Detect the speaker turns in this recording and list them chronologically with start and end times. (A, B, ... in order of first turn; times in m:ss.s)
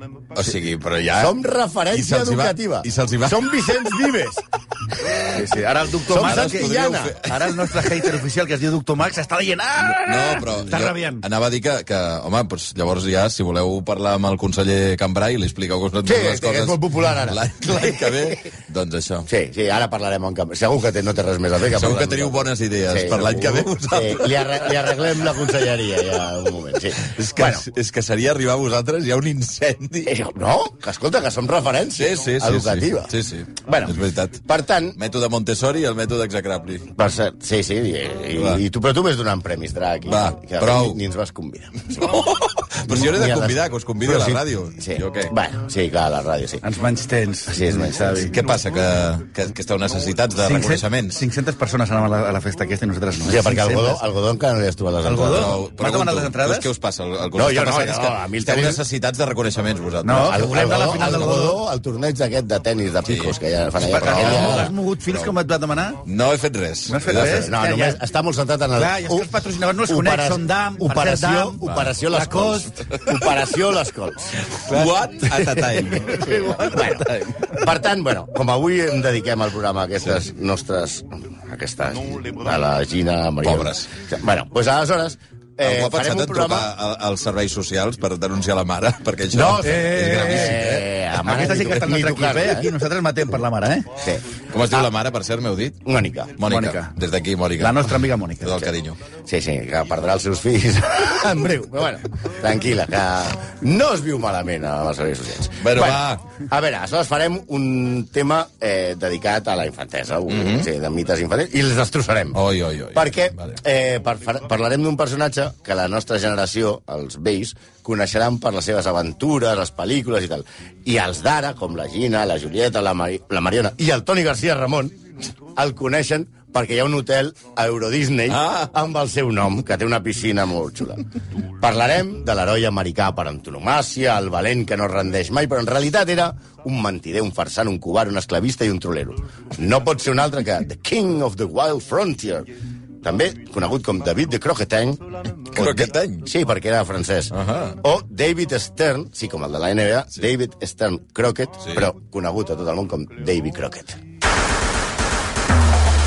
0:00.3-0:01.4 A
0:01.1-0:04.4 B
0:01.9-0:03.5 A
0:05.0-0:05.3 B
0:05.3-0:11.2 C
0:06.0-0:07.2 B
0:06.2-0:07.5 A
0:09.8-0:19.3 A
0:16.0-0:18.2 B
0:19.3-0:27.7 B
0:21.7-0:25.3 A
0:27.0-0:30.1 A
0:30.0-0:35.0 B
0:31.9-0:34.4 A
0:35.0-0:36.9 A
0:36.9-0:42.2 B
0:40.1-0:41.0 A
0:42.0-0:45.3 A
0:42.9-0:46.6 B
0:46.6-0:48.3 C
0:47.5-0:48.3 B
0:48.1-0:51.2 A
0:50.4-0:54.0 C
0:53.2-0:55.6 B
0:55.0-0:56.7 C
0:55.2-1:01.3 A
0:57.3-0:58.8 B
1:00.0-1:01.6 C
1:00.3-1:04.7 B
1:03.0-1:05.3 A
1:03.8-1:06.0 C
1:06.0-1:07.5 A
1:06.9-1:08.0 C
1:07.1-1:14.3 B
1:08.7-1:12.8 C
1:11.6-1:11.9 A
1:14.5-1:17.5 A
1:14.6-1:17.6 C
1:16.1-1:26.7 B
1:23.4-1:23.9 A
1:25.6-1:30.9 A
1:29.3-1:32.7 B
1:29.6-1:33.9 C
1:34.0-1:34.9 B
1:34.5-1:35.8 A
1:35.8-1:36.4 B
1:36.4-1:39.0 A
1:36.4-1:36.9 C
1:37.6-1:38.6 C
1:39.3-1:52.4 B
1:45.6-1:46.2 A
1:50.3-1:50.7 A
1:52.3-1:53.6 A
1:52.9-2:05.0 B
2:05.5-2:11.0 B
2:08.3-2:08.7 A
2:11.6-2:34.0 B
2:25.5-2:26.3 A
2:27.3-2:27.8 A